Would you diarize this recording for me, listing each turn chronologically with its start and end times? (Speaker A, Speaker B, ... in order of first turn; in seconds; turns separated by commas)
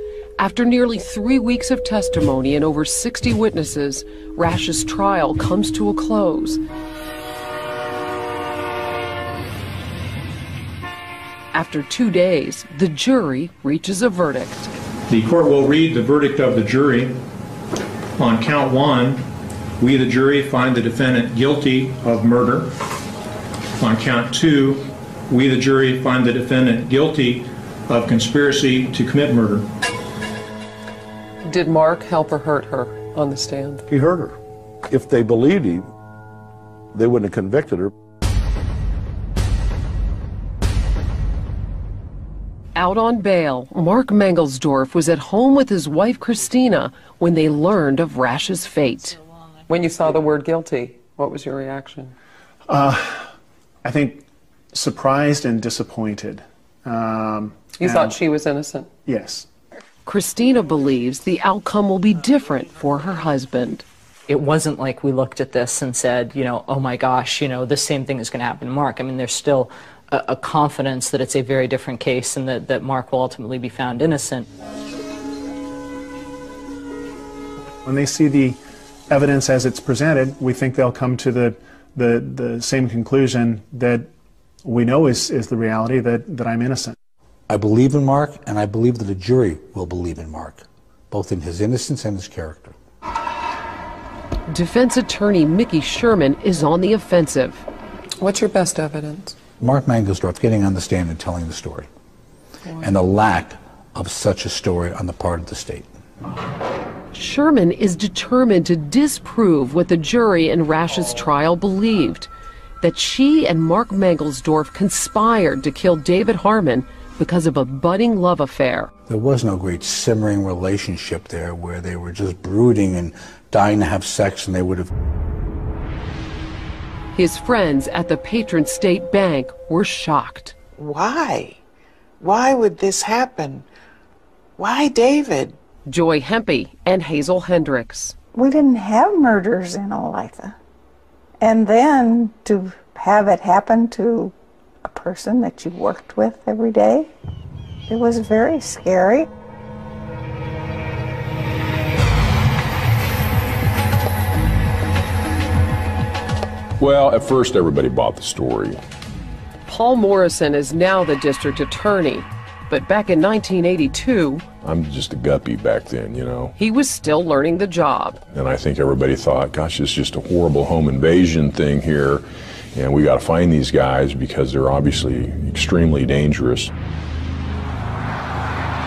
Speaker A: 0.4-6.6, Speaker A: 11.5-14.7, Speaker B: 15.1-17.1, Speaker B: 18.2-19.2, Speaker B: 19.8-22.7, Speaker B: 23.8-29.6, Speaker C: 31.4-33.8, Speaker D: 33.9-34.4, Speaker D: 34.9-35.9, Speaker D: 36.9-37.9, Speaker A: 42.7-49.2, Speaker C: 49.7-52.1, Speaker E: 52.7-53.3, Speaker E: 53.8-58.1, Speaker C: 57.8-58.9, Speaker E: 59.0-59.5, Speaker A: 60.0-63.8, Speaker F: 64.3-74.5, Speaker E: 77.8-84.1, Speaker E: 84.6-87.0, Speaker G: 87.5-92.7, Speaker A: 94.5-97.7, Speaker C: 98.2-99.3, Speaker G: 99.6-101.9, Speaker C: 102.6-102.9, Speaker G: 102.8-105.9, Speaker A: 107.1-112.3, Speaker A: 112.8-118.9, Speaker G: 119.1-124.9, Speaker A: 127.1-130.6, Speaker H: 130.8-131.6, Speaker H: 132.2-133.7, Speaker H: 134.6-135.6, Speaker A: 135.9-138.2, Speaker I: 138.3-140.6, Speaker I: 141.4-144.3, Speaker I: 144.8-147.1, Speaker I: 147.9-149.3, Speaker J: 156.8-158.8, Speaker A: 159.7-164.4, Speaker J: 164.6-166.6, Speaker A: 166.6-168.2, Speaker J: 168.3-172.2, Speaker J: 172.7-176.7